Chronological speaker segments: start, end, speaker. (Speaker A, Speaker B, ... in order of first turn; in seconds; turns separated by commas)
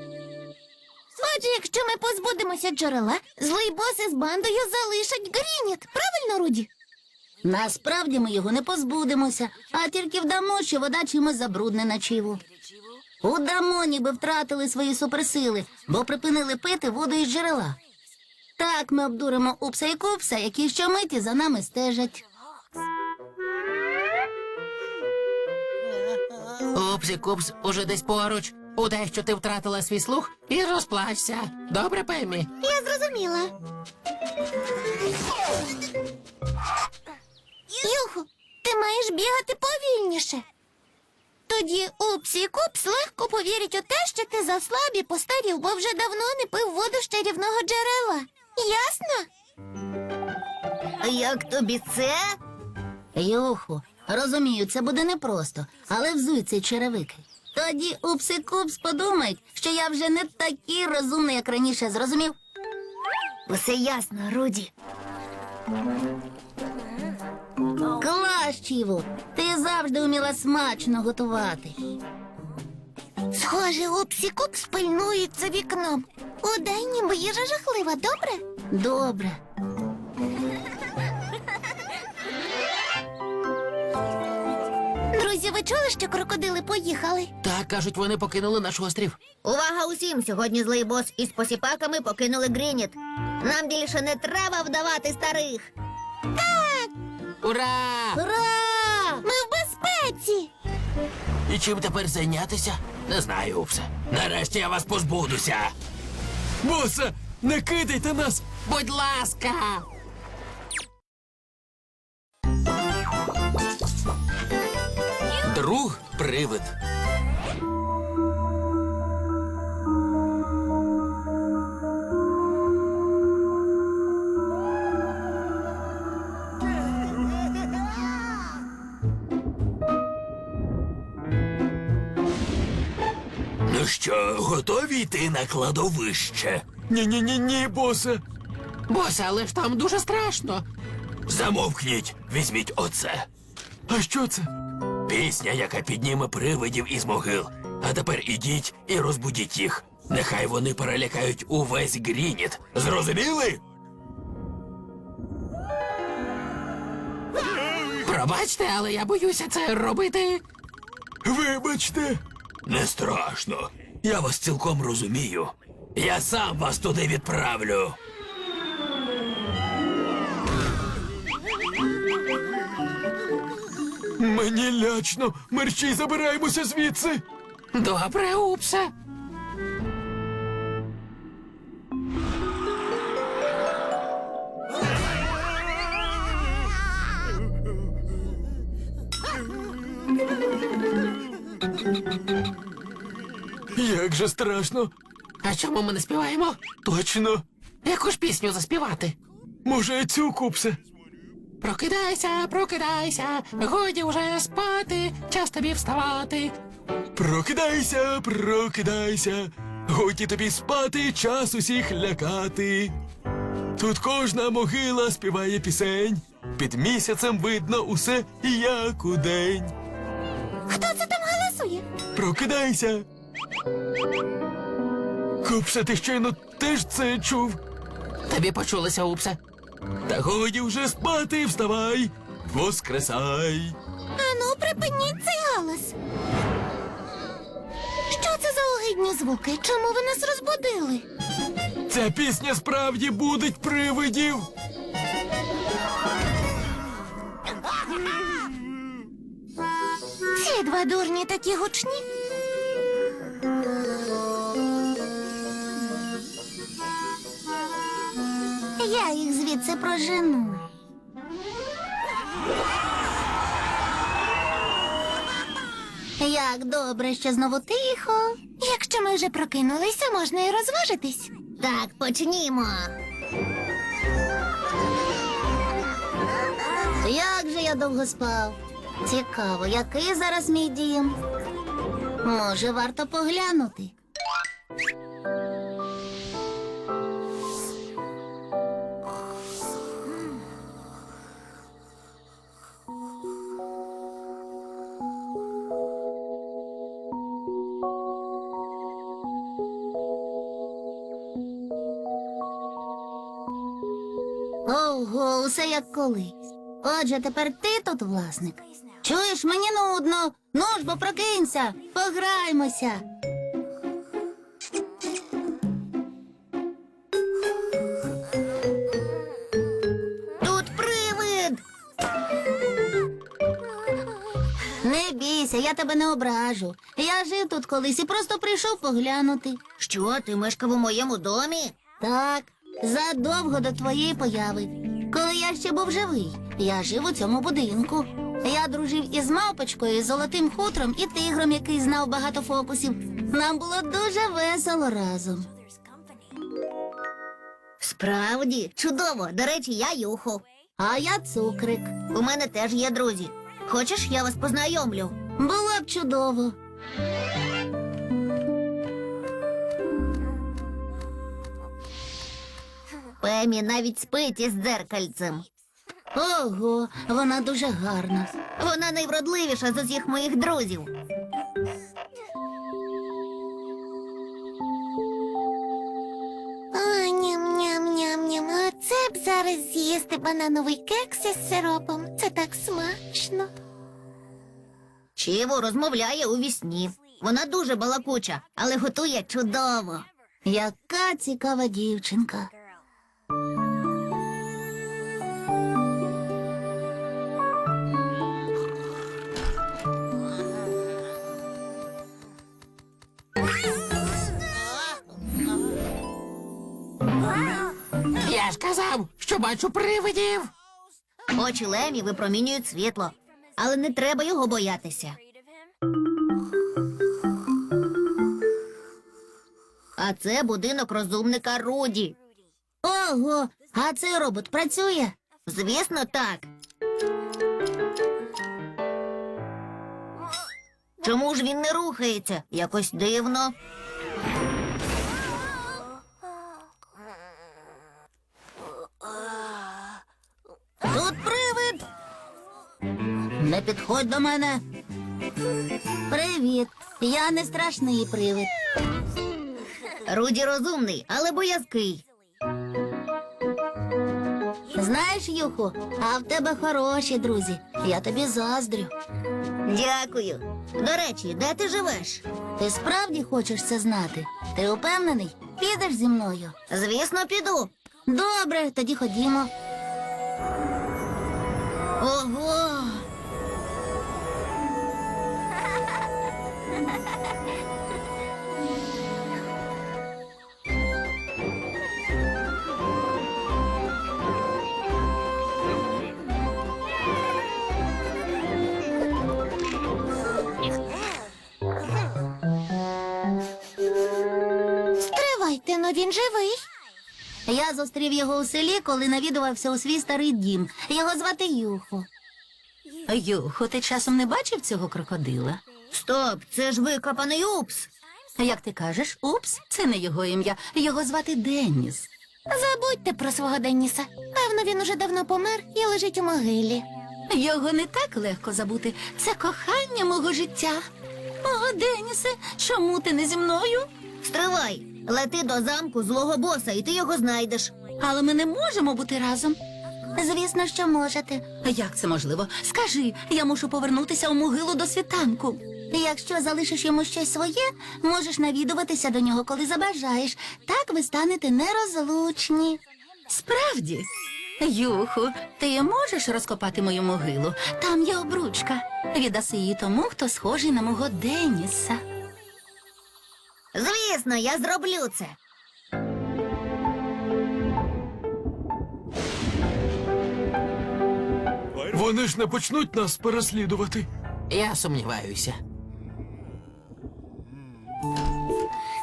Speaker A: 1.2-6.7, Speaker B: 7.4-12.4, Speaker B: 13.2-17.8, Speaker B: 18.6-22.2, Speaker C: 26.7-32.5, Speaker A: 32.6-33.5, Speaker A: 37.7-40.4, Speaker A: 41.5-49.3, Speaker D: 51.0-52.3, Speaker B: 53.2-62.4, Speaker D: 63.5-64.7, Speaker B: 68.0-71.8, Speaker A: 73.3-78.4, Speaker B: 78.7-79.4, Speaker A: 85.1-87.3, Speaker C: 87.4-89.2, Speaker D: 89.4-95.7, Speaker A: 96.4-96.9, Speaker C: 97.4-98.2, Speaker B: 98.1-99.3, Speaker A: 99.2-100.5, Speaker C: 101.5-105.7, Speaker E: 106.6-108.4, Speaker C: 108.7-109.9, Speaker C: 115.4-116.8, Speaker C: 133.7-136.7, Speaker E: 136.9-138.2, Speaker C: 138.9-140.7, Speaker C: 141.3-143.3, Speaker E: 143.9-144.5, Speaker C: 145.1-153.6, Speaker C: 158.0-160.4, Speaker E: 161.2-162.2, Speaker C: 162.7-168.0, Speaker E: 174.2-177.2, Speaker C: 177.7-178.9, Speaker E: 193.8-194.9, Speaker C: 195.4-196.7, Speaker E: 196.8-197.4, Speaker C: 197.8-199.2, Speaker E: 199.7-200.8, Speaker C: 201.6-206.6, Speaker E: 207.1-212.9, Speaker E: 213.8-219.7, Speaker A: 220.7-221.8, Speaker E: 222.2-223.1, Speaker E: 225.4-227.6, Speaker C: 228.3-229.4, Speaker E: 230.1-233.8, Speaker A: 234.2-236.0, Speaker A: 238.1-241.1, Speaker E: 241.9-244.5, Speaker A: 250.3-252.0, Speaker B: 258.8-260.6, Speaker B: 266.2-268.4, Speaker A: 268.6-271.3, Speaker D: 271.6-272.9, Speaker B: 277.0-281.2, Speaker B: 282.2-283.9, Speaker B: 304.7-313.0, Speaker D: 320.4-321.6, Speaker B: 324.8-329.6, Speaker D: 329.8-331.8, Speaker B: 332.0-345.5, Speaker D: 347.8-350.4, Speaker B: 350.8-351.9, Speaker D: 352.1-355.1, Speaker B: 355.4-356.6, Speaker D: 363.2-365.5, Speaker B: 366.1-368.3, Speaker D: 368.6-370.9, Speaker A: 376.7-383.5, Speaker D: 385.2-390.1, Speaker B: 390.5-392.5, Speaker C: 408.2-410.5, Speaker D: 411.3-415.2, Speaker D: 420.0-422.2, Speaker B: 422.8-425.1, Speaker D: 425.5-426.5, Speaker D: 431.0-433.5, Speaker B: 440.8-441.8, Speaker B: 443.4-444.6, Speaker B: 446.1-448.5, Speaker D: 450.1-452.0, Speaker B: 454.7-458.9, Speaker D: 459.7-462.2, Speaker B: 462.6-466.6, Speaker D: 466.7-467.7, Speaker B: 468.1-469.5, Speaker D: 472.0-473.0, Speaker A: 495.0-496.6, Speaker B: 497.5-502.1, Speaker B: 503.1-505.6, Speaker D: 505.9-507.9, Speaker B: 508.4-512.1, Speaker A: 512.5-516.9, Speaker B: 517.3-520.8, Speaker B: 521.4-523.9, Speaker D: 524.2-527.7, Speaker B: 528.0-529.6, Speaker B: 530.2-544.1, Speaker B: 544.6-552.0, Speaker D: 553.7-555.4, Speaker E: 561.9-564.1, Speaker C: 564.5-565.6